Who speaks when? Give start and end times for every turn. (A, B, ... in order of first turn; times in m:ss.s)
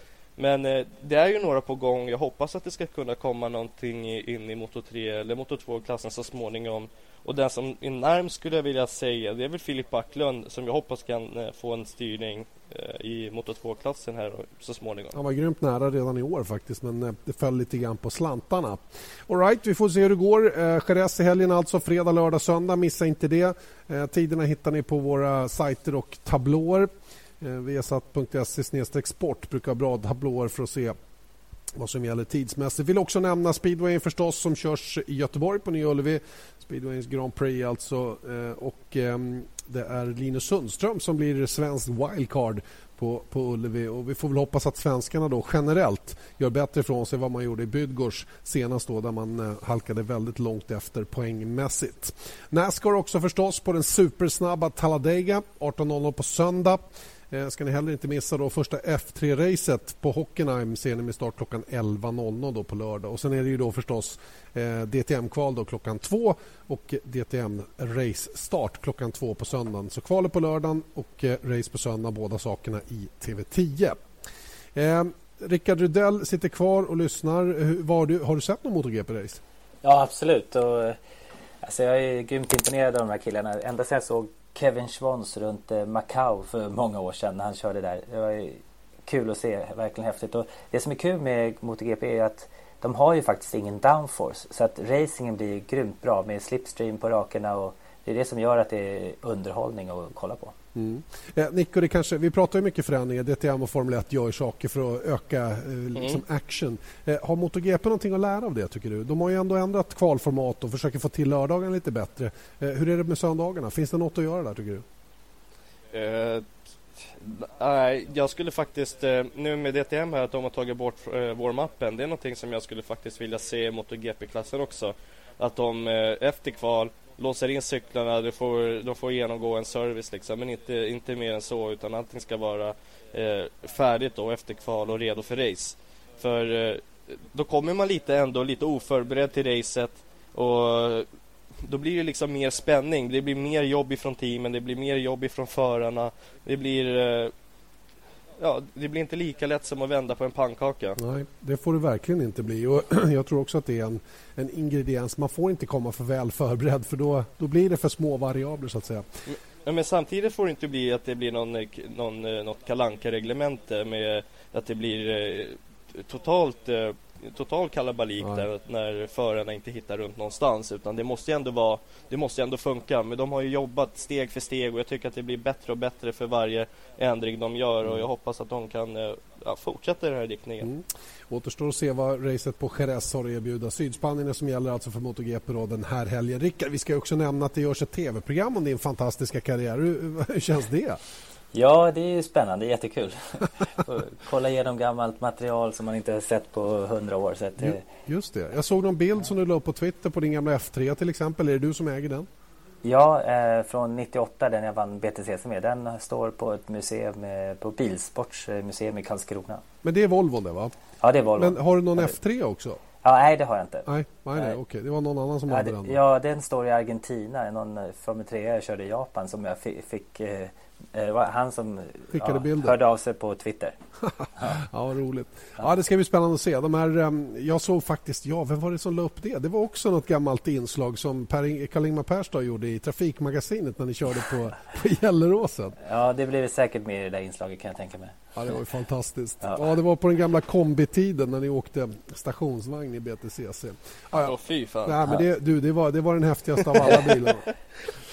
0:00.4-0:15.2 A
0:15.1-0:26.9 B
0:27.4-0:31.0 B
0:31.8-1:14.0 B
1:14.7-1:19.4 B
1:19.8-1:21.0 C
1:21.6-1:40.6 C
1:40.8-1:54.8 B
1:46.0-1:46.2 A
1:55.9-2:21.1 A
2:21.6-2:27.3 A
2:28.4-2:31.0 A
2:31.0-2:39.1 B
2:39.3-3:00.7 A
2:48.2-2:48.5 B
3:00.6-3:11.0 B
3:11.5-3:17.8 C
3:17.6-3:22.3 B
3:22.8-3:29.6 C
3:29.8-3:30.7 B
3:31.0-3:32.1 C
3:31.4-3:32.8 B
3:33.0-3:34.6 C
3:33.9-3:36.0 B
3:35.5-3:43.8 C
3:42.1-3:42.8 B
3:44.2-3:55.8 B
3:55.8-3:58.2 C
3:58.4-4:04.3 B
4:04.2-4:05.2 A
4:04.8-4:07.5 B
4:06.8-4:07.1 A